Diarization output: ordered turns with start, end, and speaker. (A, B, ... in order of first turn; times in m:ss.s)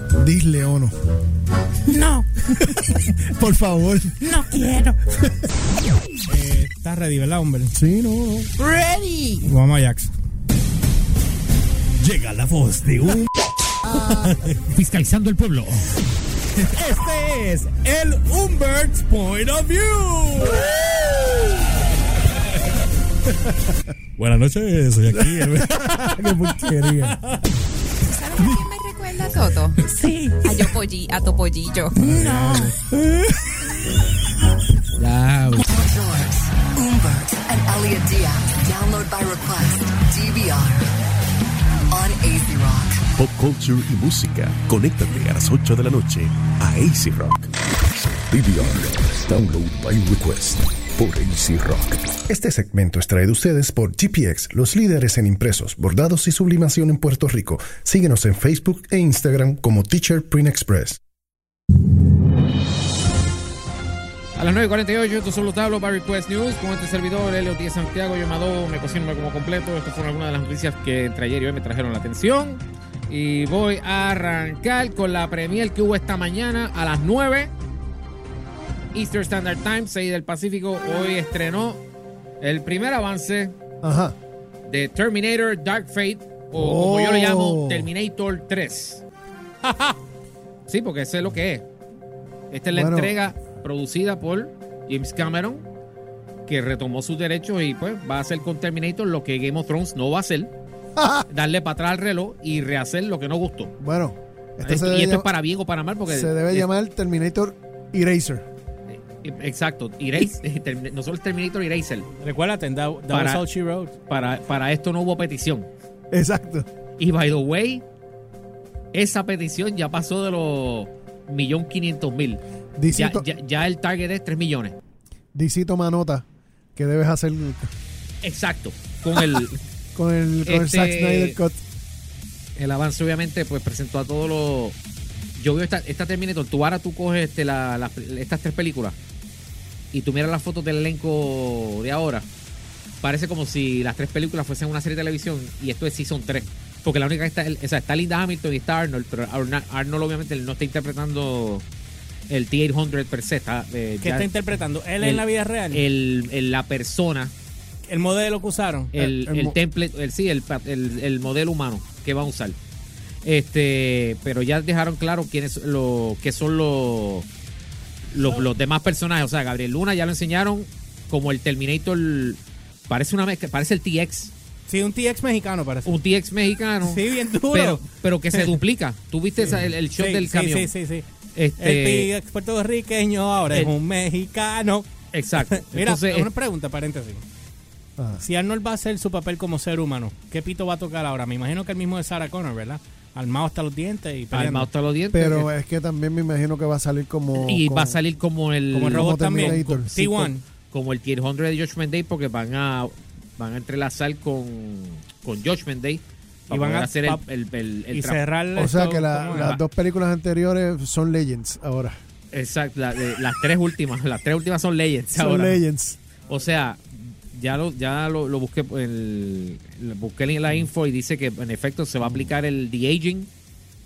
0:00.2-0:00.9 A
0:01.9-0:02.3 B
0:03.3-0:04.6 A
0:04.2-0:05.0 B
0:06.2-0:07.7 C
0:07.7-0:08.5 A
0:08.6-0:09.5 B
0:09.4-0:10.1 C
0:12.0-0:13.3 C
0:14.0-0:14.6 C
0:14.5-0:15.9 D
0:16.5-0:21.6 C
0:24.2-0:27.6 C
0:25.1-0:27.1 A
0:28.1-0:29.8 E
0:29.9-0:30.4 B
0:30.4-0:32.2 E
0:32.0-0:32.7 C
0:32.1-0:32.7 B
0:35.0-0:35.6 D
0:35.6-0:40.9 F
0:41.9-0:43.0 F
0:43.2-0:47.5 G
0:48.1-0:52.2 G
0:52.3-1:01.0 H
1:04.4-1:17.5 D
1:18.9-1:21.8 D
1:22.4-1:23.5 D
1:23.8-1:24.1 A
1:24.6-1:29.0 D
1:26.5-1:27.9 A
1:30.7-1:31.6 D
1:32.5-1:35.7 D
1:32.7-1:33.2 A
1:36.4-1:40.5 D
1:41.0-1:41.3 A
1:41.3-1:43.7 D
1:43.8-1:45.3 A
1:44.6-1:46.7 D
1:46.1-1:48.4 A
1:48.9-1:52.1 D
1:52.2-1:53.9 C
1:53.1-1:53.4 D
1:54.1-1:55.7 D
1:56.1-1:56.6 A
1:57.0-1:57.8 D
1:58.9-2:04.8 D
2:02.8-2:03.2 A
2:05.3-2:06.2 A
2:06.8-2:07.7 A
2:08.2-2:09.6 D
2:09.9-2:11.6 A
2:10.4-2:11.4 D
2:12.6-2:14.8 D
2:15.4-2:19.0 D
2:19.9-2:22.3 D
2:23.0-2:31.6 D
2:32.3-2:34.3 D
2:34.0-2:35.8 C
2:35.0-2:37.3 D
2:37.9-2:38.9 C
2:38.9-2:42.6 D
2:39.0-2:39.6 A
2:43.2-2:47.3 D
2:48.1-2:54.3 D
2:48.2-2:48.4 C
2:54.7-2:55.9 C
2:55.8-3:00.7 D
2:56.8-2:58.6 C
2:59.4-3:01.0 C
3:01.3-3:02.1 D
3:01.6-3:04.9 C
3:05.1-3:06.3 D
3:05.4-3:07.2 C
3:08.0-3:08.2 A
3:08.2-3:14.7 C
3:14.3-3:15.5 D
3:15.1-3:18.0 A
3:17.4-3:19.8 D
3:18.7-3:20.4 C
3:19.0-3:20.3 A
3:20.7-3:28.2 D
3:26.5-3:27.2 C
3:27.9-3:29.6 C
3:28.6-3:32.0 A
3:29.3-3:29.6 D
3:32.3-3:35.6 D
3:35.1-3:36.1 A
3:36.3-3:36.8 D
3:37.3-3:43.3 D